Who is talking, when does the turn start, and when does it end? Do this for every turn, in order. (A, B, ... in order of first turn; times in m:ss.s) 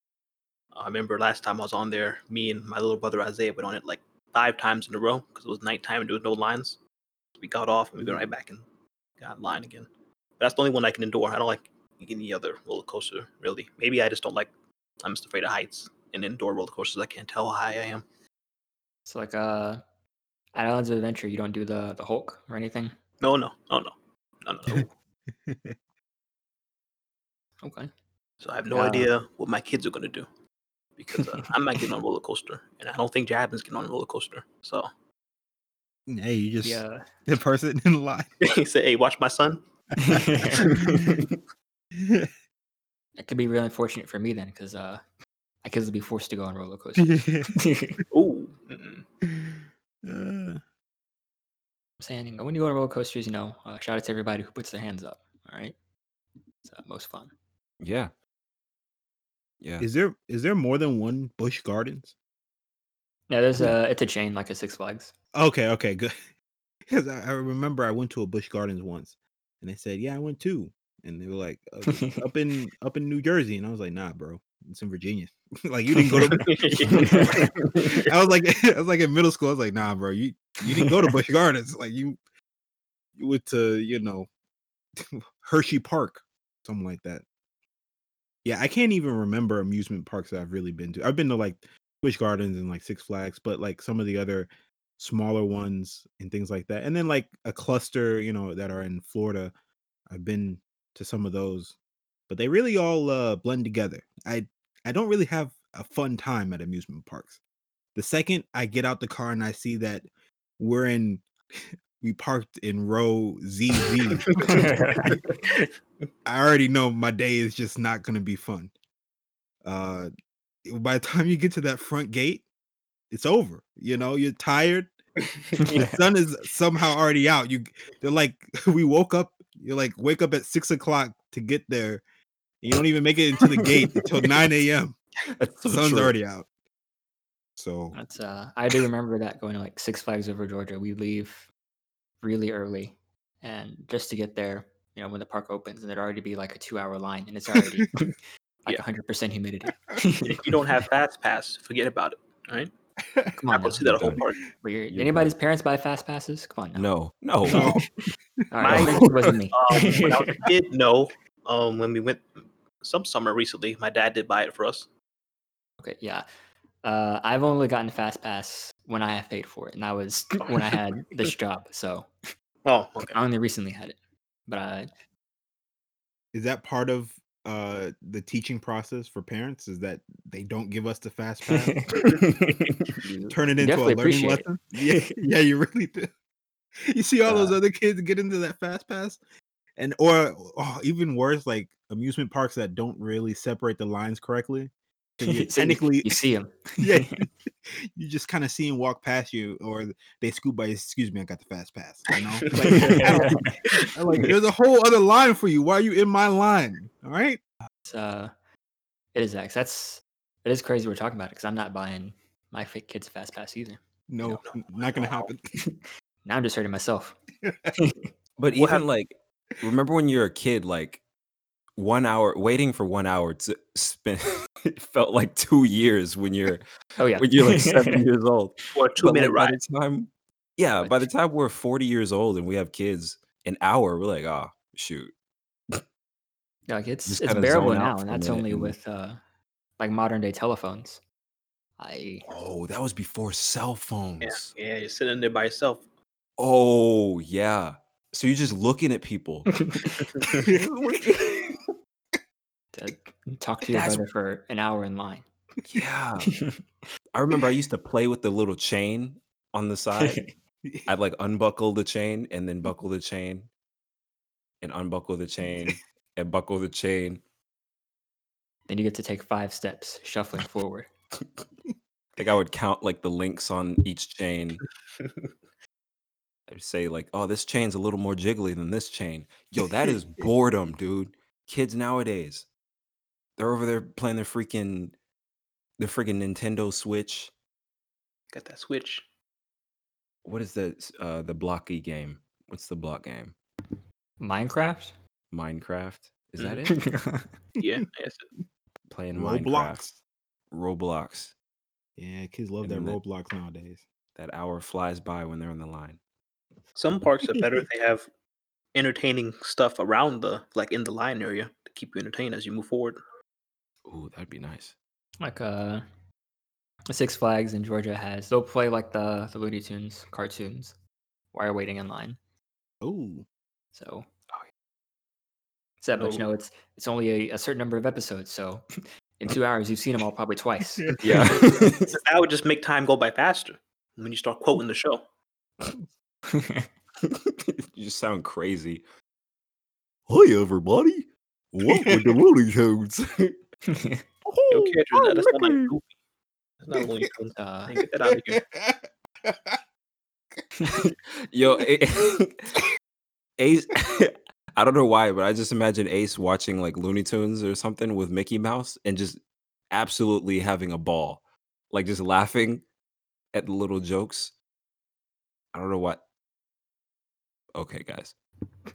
0:00.8-0:06.8 A
0:07.4-0:08.6 A
0:09.2-0:09.9 A
0:10.4-0:14.5 A
0:15.0-0:18.0 A
0:19.1-0:19.8 B
0:20.5-0:22.9 B
0:23.2-0:24.9 A
0:24.7-0:25.8 C
0:27.6-0:27.9 B
0:28.4-0:30.3 A
0:28.7-0:29.1 B
0:31.0-0:34.9 A
0:36.1-0:38.3 C
0:36.6-0:37.0 B
0:38.4-0:39.6 A
0:40.0-0:40.7 B
0:40.6-0:41.1 A
0:40.8-0:41.0 C
0:42.0-0:42.3 C
0:43.2-0:45.0 B
0:45.6-0:48.0 B
0:47.0-0:47.5 C
0:48.1-0:49.0 A
0:49.3-0:50.6 C
0:52.0-0:55.8 B
0:56.6-0:57.3 B
0:57.8-0:58.1 D
0:59.6-0:59.9 D
0:59.8-1:02.1 C
1:03.3-1:05.1 B
1:05.3-1:06.2 C
1:06.9-1:22.2 C
1:11.9-1:12.2 B
1:16.1-1:16.3 B
1:16.4-1:18.1 A
1:16.9-1:17.4 B
1:23.2-1:24.3 C
1:25.0-1:27.2 C
1:28.4-1:39.5 C
1:40.1-1:41.8 C
1:42.3-1:47.4 C
1:48.0-1:50.1 C
1:50.6-1:55.2 C
1:54.3-1:55.7 A
1:54.5-1:55.0 B
1:56.2-1:58.7 C
1:59.6-2:00.1 C
2:00.6-2:02.4 C
2:03.1-2:04.9 C
2:05.7-2:12.0 C
2:12.6-2:15.0 C
2:15.4-2:16.1 D
2:15.6-2:16.5 C
2:17.6-2:18.0 C
2:17.9-2:21.5 B
2:22.2-2:28.1 B
2:28.7-2:30.4 B
2:30.2-2:32.7 A
2:33.4-2:33.8 B
2:33.5-2:34.4 A
2:33.8-2:34.2 D
2:34.6-2:36.9 B
2:34.9-2:35.4 D
2:36.8-2:37.7 D
2:37.5-2:37.9 C
2:37.5-2:37.8 B
2:38.5-2:40.4 B
2:38.6-2:42.3 A
2:38.7-2:39.1 D
2:42.8-2:44.9 A
2:45.8-2:46.2 B
2:46.8-2:52.1 B
2:52.6-2:53.2 A
2:53.1-2:54.9 B
2:56.3-3:02.0 C
3:01.5-3:02.0 B
3:03.0-3:05.2 B
3:03.3-3:06.1 C
3:06.8-3:09.2 C
3:07.3-3:07.6 B
3:09.8-3:16.2 C
3:15.2-3:17.2 B
3:16.8-3:27.4 C
3:22.6-3:23.5 B
3:27.9-3:28.3 B
3:29.2-3:34.4 B
3:34.1-3:35.4 C
3:34.4-3:35.3 A
3:35.6-3:37.2 B
3:37.4-3:37.7 C
3:37.8-3:38.1 B
3:38.4-3:41.0 D
3:38.5-3:38.8 A
3:41.8-3:46.6 D
3:47.0-3:48.0 B
3:47.2-3:55.1 D
3:48.7-3:49.6 A
3:50.8-3:51.1 B
3:56.7-3:59.2 B
3:57.1-3:58.8 D
3:59.8-4:01.0 B
4:01.8-4:02.3 B
4:02.3-4:04.5 D
4:04.2-4:05.8 A
4:06.4-4:09.7 D
4:09.6-4:10.0 B
4:10.3-4:11.6 D
4:10.4-4:11.1 C
4:12.8-4:15.3 B
4:13.7-4:14.0 D
4:15.7-4:16.4 D
4:17.1-4:20.2 D
4:20.0-4:20.3 B
4:20.9-4:23.5 D
4:24.6-4:27.2 D
4:28.7-4:30.9 B
4:32.2-4:34.6 D
4:35.0-4:35.3 A
4:36.5-4:42.5 D
4:43.4-4:45.0 D
4:45.8-4:47.3 D
4:48.3-4:49.0 A
4:50.2-4:53.3 D
4:54.2-4:54.9 B
4:55.3-4:56.8 D
4:56.8-4:57.3 B
4:57.6-4:58.3 A
4:58.9-4:59.9 D
4:59.2-4:59.9 C
5:00.5-5:01.3 D
5:02.0-5:03.8 C
5:02.6-5:03.0 D
5:04.2-5:06.0 D
5:06.8-5:08.1 A
5:08.7-5:13.0 A
5:13.9-5:14.8 D
5:15.2-5:15.8 B
5:16.9-5:20.8 B
5:21.3-5:22.2 B
5:22.8-5:23.3 C
5:23.7-5:24.1 B
5:25.8-5:28.6 B
5:26.0-5:26.3 A
5:29.2-5:30.9 B
5:30.8-5:31.2 C
5:31.0-5:32.0 D
5:31.8-5:35.0 A
5:36.3-5:36.7 B
5:37.0-5:38.8 D
5:40.1-5:43.4 D
5:41.7-5:42.1 C
5:43.7-5:44.0 B
5:44.3-5:44.8 C
5:44.5-5:45.9 A
5:46.6-5:48.4 A
5:46.7-5:47.1 C
5:47.4-5:47.8 B
5:48.0-5:49.6 C
5:50.7-5:52.6 D
5:53.4-5:59.2 D
5:59.7-6:02.6 D
6:03.3-6:04.3 D
6:05.5-6:06.0 D
6:07.6-6:08.1 D